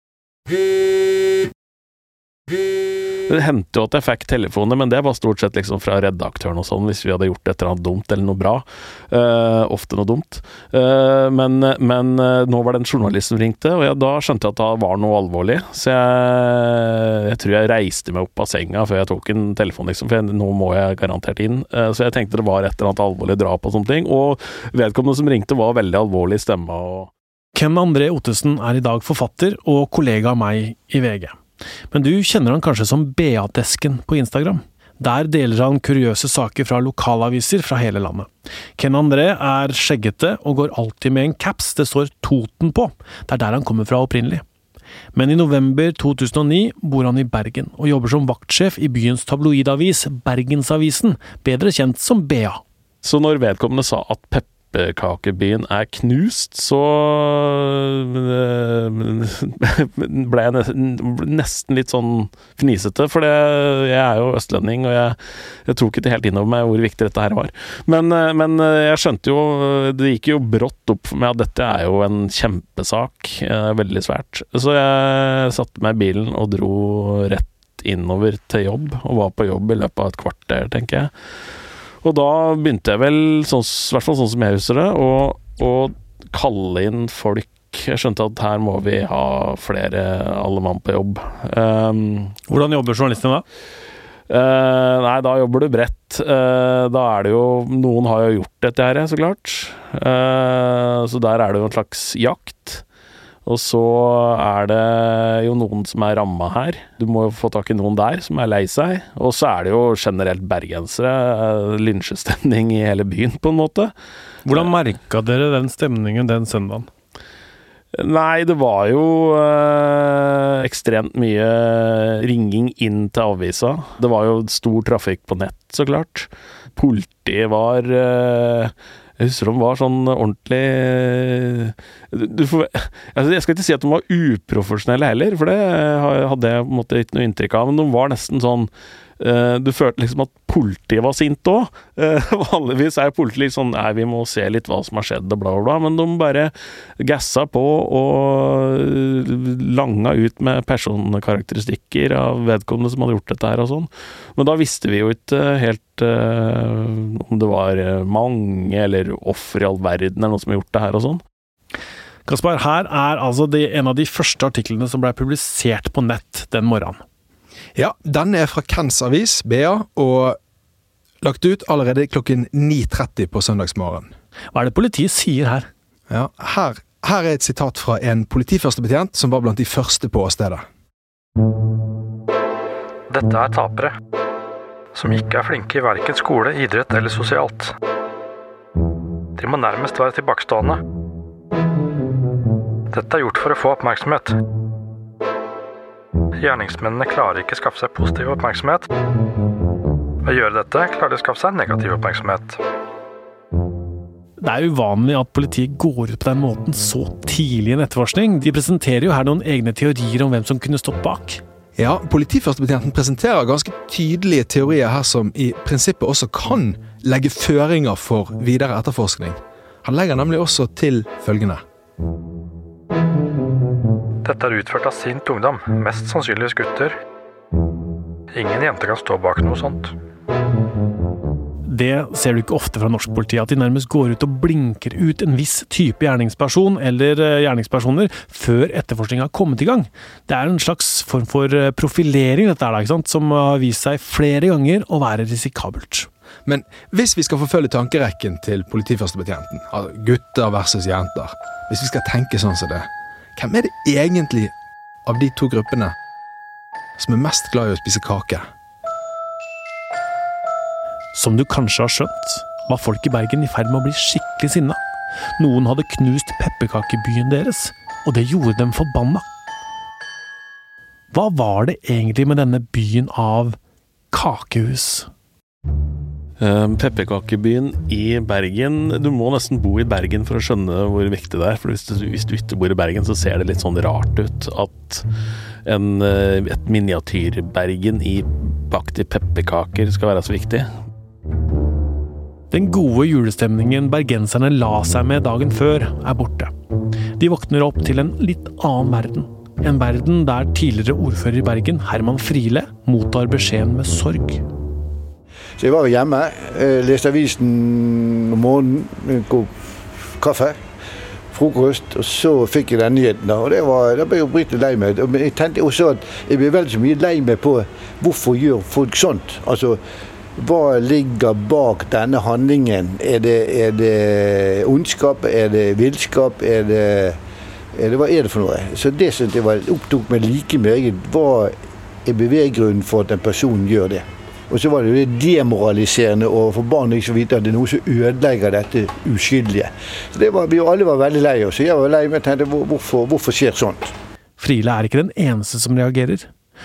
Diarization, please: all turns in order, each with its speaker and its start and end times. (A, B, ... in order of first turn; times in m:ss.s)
0:03.3-0:27.1 A
0:27.5-0:31.4 B
0:31.9-0:44.4 B
0:45.1-0:52.6 B
0:53.0-1:21.1 A
1:22.0-1:32.3 A
1:32.5-1:33.4 B
1:34.3-1:42.8 A
1:43.4-1:53.9 A
1:54.4-1:56.9 B
1:58.0-2:41.2 A
2:42.2-2:47.0 B
2:47.7-2:50.4 C
2:51.2-2:54.1 C
2:54.5-2:55.7 B
2:56.1-3:00.6 C
3:03.1-3:03.9 D
3:04.9-3:07.7 D
3:09.4-3:10.8 D
3:12.9-3:14.3 D
3:16.4-3:18.9 D
3:20.2-3:22.6 D
3:24.4-3:31.4 B
3:31.8-3:41.6 C
3:44.2-3:46.9 D
3:48.3-3:49.9 D
3:51.6-4:06.1 B
4:06.4-4:14.5 C
4:15.0-4:15.9 C
4:17.0-4:18.4 C
4:21.1-4:24.8 B
4:25.4-4:29.2 B
4:31.1-4:33.6 B
4:34.1-4:35.1 B
4:36.4-4:45.0 A
4:45.6-4:50.7 A
4:52.5-4:56.5 B
4:57.2-5:04.4 B
5:05.6-5:09.5 E
5:10.2-5:10.6 E
5:11.3-5:19.8 E
5:20.4-5:27.2 E
5:27.8-5:31.5 E
5:32.0-5:43.9 E
5:44.4-5:46.3 B